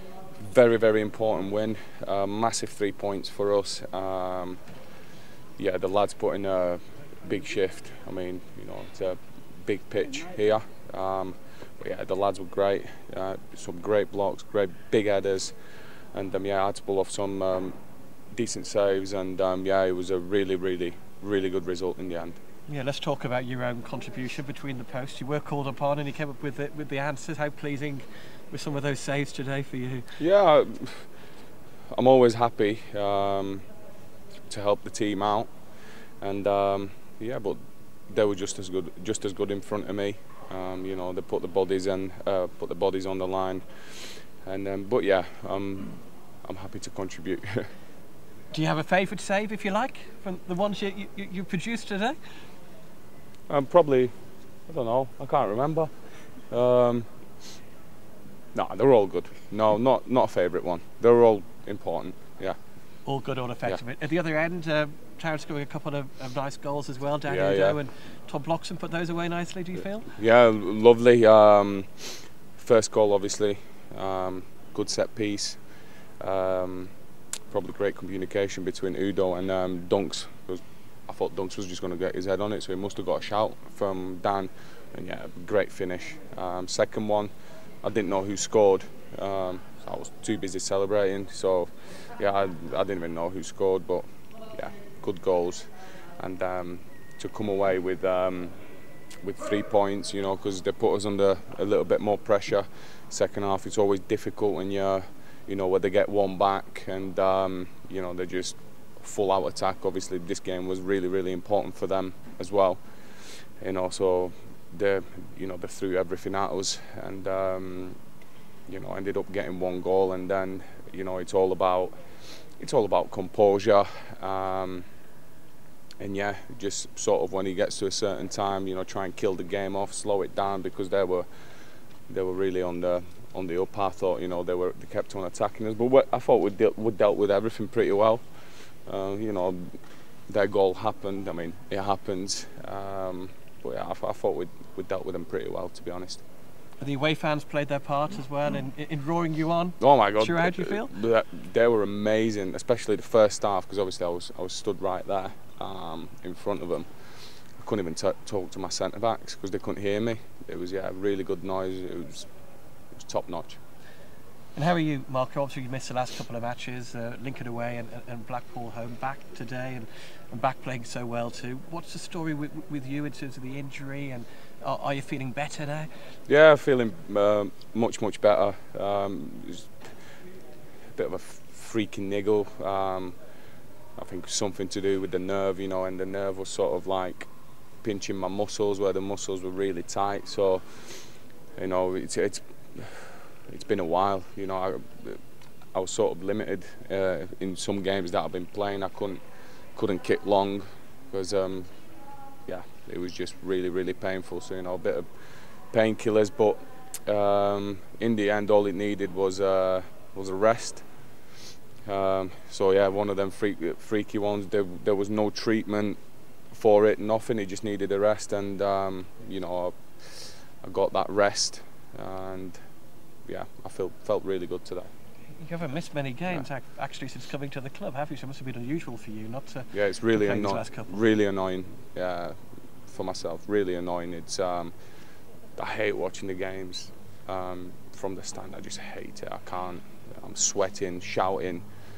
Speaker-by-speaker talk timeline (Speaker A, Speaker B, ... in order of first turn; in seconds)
Speaker A: 0.4-4.6, 5.6-15.6, 16.1-17.8, 18.3-22.4, 30.2-31.1, 31.9-33.6, 34.5-35.5, 36.2-47.7, 53.5-54.1, 54.7-57.1, 58.5-62.6, 67.3-67.8, 70.1-75.6, 76.2-76.9, 77.5-87.3, 87.8-98.5, 99.2-118.0, 118.7-124.8, 126.0-131.3, 132.1-139.8, 140.3-146.2, 149.8-162.3, 162.9-163.6, 176.3-179.9, 180.9-183.2, 184.0-187.3, 187.8-195.2, 195.7-199.2, 199.8-201.7, 202.5-210.8, 211.8-216.0, 216.5-222.6, 223.3-224.9, 229.7-234.7, 235.6-241.7
Speaker B: 22.7-30.1, 48.5-52.4, 63.0-70.1, 146.8-150.9, 164.6-175.9, 225.4-231.0